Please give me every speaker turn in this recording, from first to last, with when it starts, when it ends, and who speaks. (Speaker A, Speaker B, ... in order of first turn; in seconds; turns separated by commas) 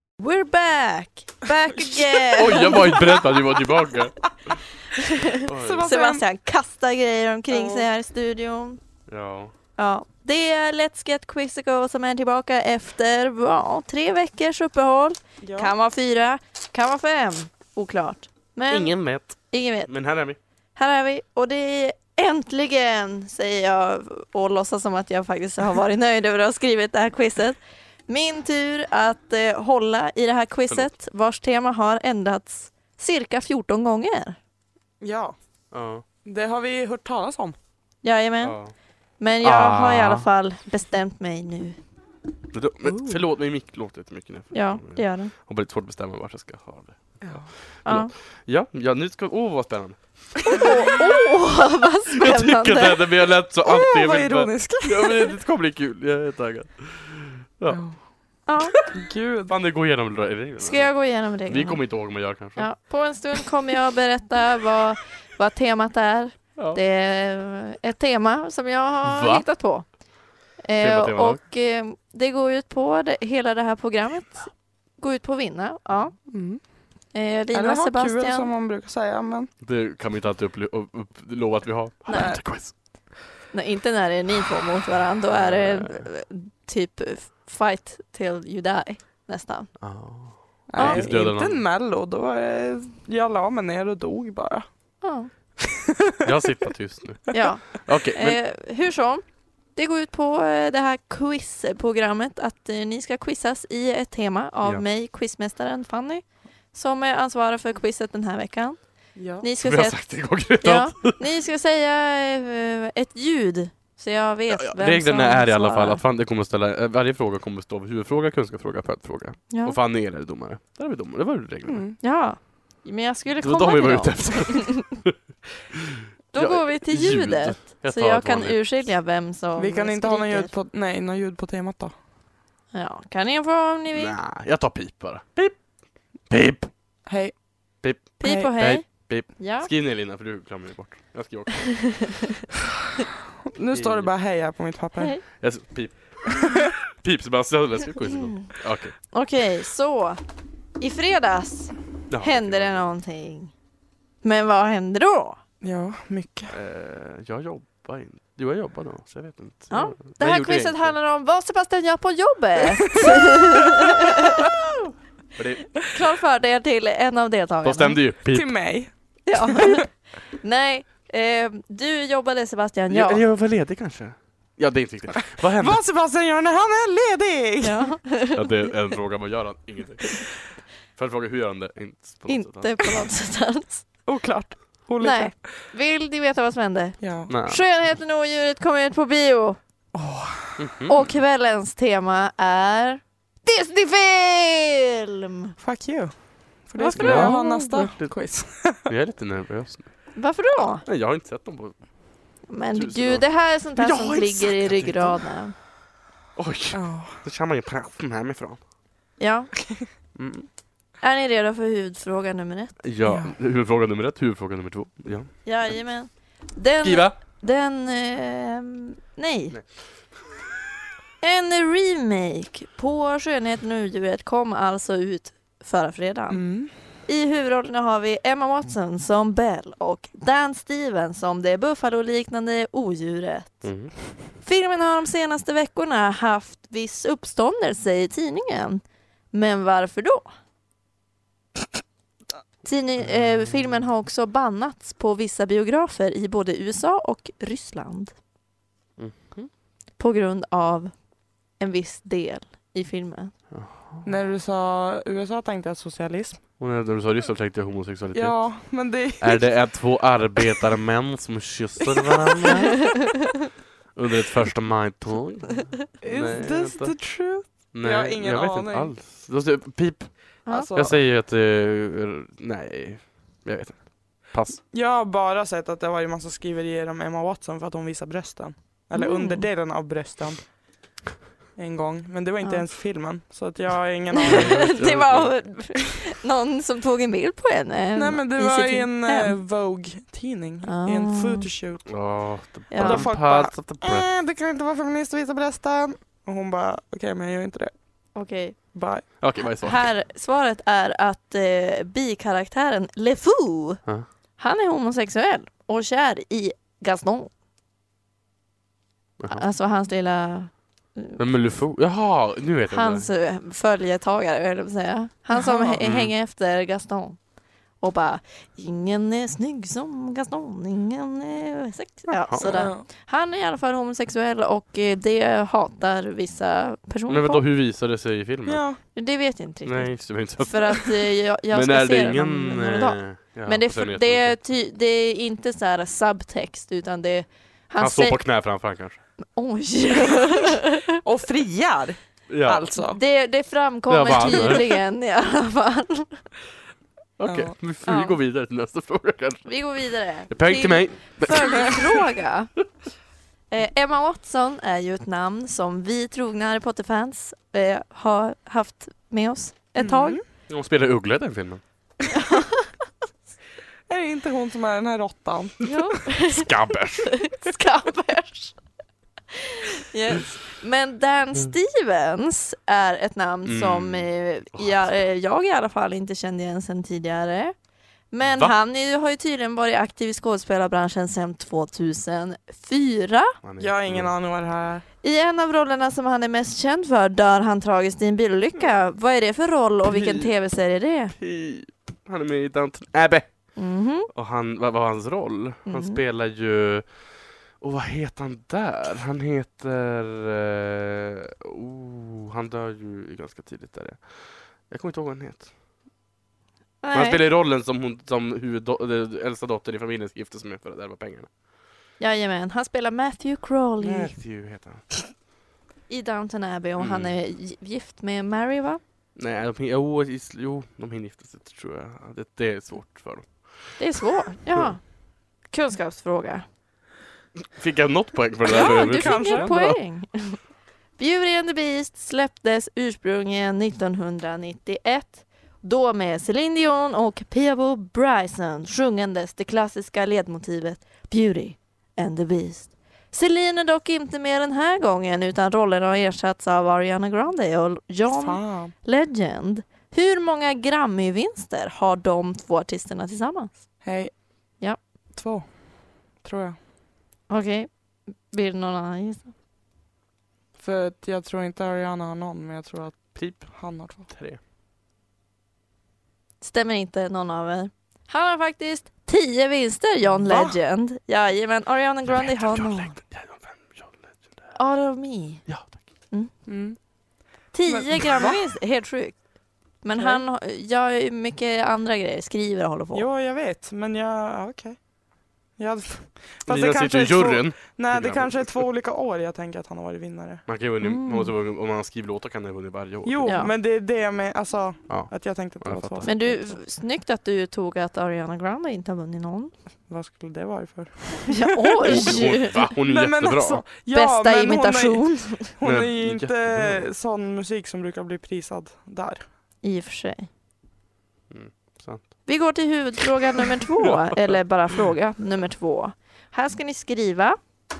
Speaker A: 0.2-3.1, Speaker B: 1.7-3.5, Speaker C: 2.3-4.6, Speaker A: 5.0-8.8, Speaker C: 5.4-5.9, Speaker B: 5.5-6.2, Speaker B: 7.5-7.9, Speaker C: 9.1-9.5, Speaker A: 9.8-19.9, Speaker B: 15.4-15.7, Speaker C: 18.7-20.4, Speaker A: 20.8-34.4, Speaker B: 35.0-35.4, Speaker C: 35.7-36.0, Speaker B: 36.2-37.6, Speaker A: 38.0-38.6, Speaker C: 38.4-38.7, Speaker A: 39.2-41.8, Speaker C: 39.4-40.3, Speaker C: 42.5-50.6, Speaker A: 42.9-43.2, Speaker A: 44.5-45.3, Speaker B: 47.2-47.5, Speaker A: 47.8-48.1, Speaker A: 50.5-53.0, Speaker C: 52.2-58.0, Speaker B: 53.6-55.3, Speaker B: 57.7-58.0, Speaker A: 58.5-58.8, Speaker B: 58.9-59.5, Speaker C: 59.5-62.6, Speaker A: 60.6-69.9, Speaker C: 69.0-69.4, Speaker A: 70.6-76.2, Speaker C: 70.8-71.4, Speaker B: 76.3-76.6, Speaker A: 77.1-78.5, Speaker B: 77.5-79.5, Speaker C: 79.6-82.7, Speaker A: 82.0-82.4, Speaker B: 82.1-82.4, Speaker A: 83.5-89.7, Speaker C: 85.3-86.0, Speaker C: 89.8-91.6, Speaker B: 90.7-94.7, Speaker A: 90.8-91.0, Speaker A: 95.0-95.3, Speaker B: 95.8-96.2, Speaker C: 96.2-98.4, Speaker A: 97.3-99.2, Speaker A: 99.7-116.0, Speaker B: 109.1-109.5, Speaker C: 109.6-111.2, Speaker C: 114.5-121.9, Speaker A: 119.5-119.8, Speaker B: 121.6-122.0, Speaker A: 122.0-124.8, Speaker C: 123.4-125.1, Speaker A: 126.3-130.5, Speaker C: 126.3-128.7, Speaker B: 129.6-131.9, Speaker A: 132.7-134.2, Speaker C: 133.9-135.7, Speaker C: 136.2-136.7, Speaker B: 137.1-137.4, Speaker C: 137.8-142.2, Speaker A: 138.2-139.7, Speaker B: 143.5-145.2, Speaker C: 143.7-144.1, Speaker A: 145.0-145.2, Speaker C: 145.4-148.9, Speaker A: 149.1-150.2, Speaker A: 150.8-153.5, Speaker C: 152.1-152.9, Speaker A: 154.2-155.4, Speaker B: 155.6-156.5, Speaker C: 156.5-160.9, Speaker A: 159.7-164.3, Speaker C: 165.3-165.9, Speaker A: 165.9-168.0, Speaker C: 167.6-168.8, Speaker B: 168.3-169.9, Speaker A: 169.2-173.2, Speaker C: 172.9-175.8, Speaker B: 175.3-177.9, Speaker A: 177.6-178.7, Speaker C: 178.3-182.9, Speaker A: 182.3-183.8, Speaker B: 184.1-185.3, Speaker A: 185.0-189.6, Speaker B: 187.0-187.3, Speaker C: 187.3-187.6, Speaker B: 189.9-190.6, Speaker C: 190.6-191.1, Speaker A: 190.9-195.6, Speaker B: 195.6-198.9, Speaker A: 196.8-197.6, Speaker C: 196.9-198.2, Speaker C: 198.9-201.8, Speaker A: 200.1-200.8, Speaker A: 202.5-205.5, Speaker C: 202.7-205.2, Speaker C: 206.3-208.6, Speaker B: 206.7-207.2, Speaker A: 209.2-209.5, Speaker C: 210.1-210.5, Speaker A: 211.0-212.8, Speaker C: 212.8-215.7, Speaker B: 213.0-213.3, Speaker A: 215.4-219.5, Speaker C: 216.8-217.2, Speaker C: 219.5-219.9, Speaker A: 221.2-226.4, Speaker B: 226.3-226.7, Speaker A: 227.0-233.8, Speaker C: 233.6-233.9, Speaker A: 234.4-240.3, Speaker A: 242.6-248.1, Speaker C: 249.0-249.5, Speaker A: 250.0-250.9, Speaker A: 251.6-253.3, Speaker C: 253.5-254.0, Speaker B: 254.0-256.4, Speaker C: 256.6-263.0, Speaker B: 258.1-259.5, Speaker C: 263.9-266.9, Speaker B: 266.0-268.9, Speaker C: 267.7-274.6, Speaker B: 270.5-271.0, Speaker B: 274.7-280.6, Speaker A: 278.9-279.5, Speaker B: 281.6-284.7, Speaker A: 284.1-289.3, Speaker C: 284.3-285.4, Speaker B: 287.9-292.0, Speaker A: 290.6-291.5, Speaker C: 291.9-294.1, Speaker A: 292.7-293.1, Speaker B: 292.7-297.7, Speaker A: 298.1-303.8, Speaker B: 298.7-299.1, Speaker C: 299.2-299.9, Speaker A: 304.4-307.3, Speaker A: 309.3-311.2, Speaker C: 311.2-313.1, Speaker A: 312.7-317.2, Speaker B: 315.3-315.8, Speaker C: 315.8-316.1, Speaker A: 317.8-327.4, Speaker B: 322.4-322.8, Speaker C: 327.1-328.6, Speaker B: 328.4-328.8, Speaker A: 328.9-338.2, Speaker C: 329.6-330.9, Speaker C: 331.5-334.4, Speaker C: 337.8-339.0, Speaker A: 339.3-340.8, Speaker B: 341.0-343.0, Speaker C: 342.3-342.7, Speaker A: 342.9-346.2, Speaker C: 343.9-344.6, Speaker B: 344.3-344.6, Speaker C: 347.2-352.0, Speaker B: 347.2-347.5, Speaker A: 347.8-348.1, Speaker A: 349.4-352.5, Speaker A: 353.5-360.2, Speaker B: 359.8-360.2, Speaker C: 360.5-361.6, Speaker A: 362.3-362.7, Speaker B: 363.9-365.7, Speaker A: 365.6-366.5, Speaker C: 366.3-367.4, Speaker A: 367.2-368.6, Speaker A: 369.3-377.5, Speaker C: 373.4-374.8, Speaker A: 378.1-383.4, Speaker C: 383.4-384.1, Speaker B: 383.6-384.8, Speaker A: 385.0-391.1, Speaker C: 389.8-390.3, Speaker C: 391.2-393.6, Speaker A: 393.6-394.1, Speaker C: 394.1-397.0, Speaker A: 395.7-396.0, Speaker C: 397.6-405.5, Speaker A: 406.8-407.2, Speaker C: 406.9-411.3, Speaker A: 412.0-414.1, Speaker C: 413.8-415.0, Speaker A: 415.9-418.8, Speaker C: 416.8-417.1, Speaker C: 419.1-423.7, Speaker A: 423.8-424.9, Speaker A: 425.5-426.4, Speaker C: 427.5-429.8, Speaker B: 428.4-429.5, Speaker A: 428.5-430.4, Speaker A: 431.0-453.7, Speaker B: 448.1-448.7, Speaker B: 453.8-454.2, Speaker B: 455.1-456.6, Speaker A: 457.3-457.7, Speaker A: 458.3-459.3, Speaker B: 460.6-464.1, Speaker C: 463.1-464.4, Speaker A: 466.4-473.0, Speaker B: 470.2-470.6, Speaker C: 472.1-474.2, Speaker A: 474.5-475.4, Speaker C: 475.4-475.8, Speaker B: 476.4-476.8, Speaker A: 477.5-479.2, Speaker B: 477.6-478.4, Speaker A: 479.8-483.1, Speaker B: 480.0-480.2, Speaker B: 482.9-484.8, Speaker B: 485.6-490.4, Speaker C: 486.4-488.5, Speaker C: 490.5-493.4, Speaker A: 490.8-491.3, Speaker B: 493.0-496.6, Speaker A: 493.2-493.5, Speaker C: 494.9-496.1, Speaker A: 496.0-499.5, Speaker B: 499.9-509.2, Speaker A: 501.3-502.7, Speaker C: 501.8-503.6, Speaker A: 503.9-505.5, Speaker C: 505.6-506.8, Speaker A: 509.6-510.3, Speaker C: 511.3-512.1, Speaker A: 512.2-517.4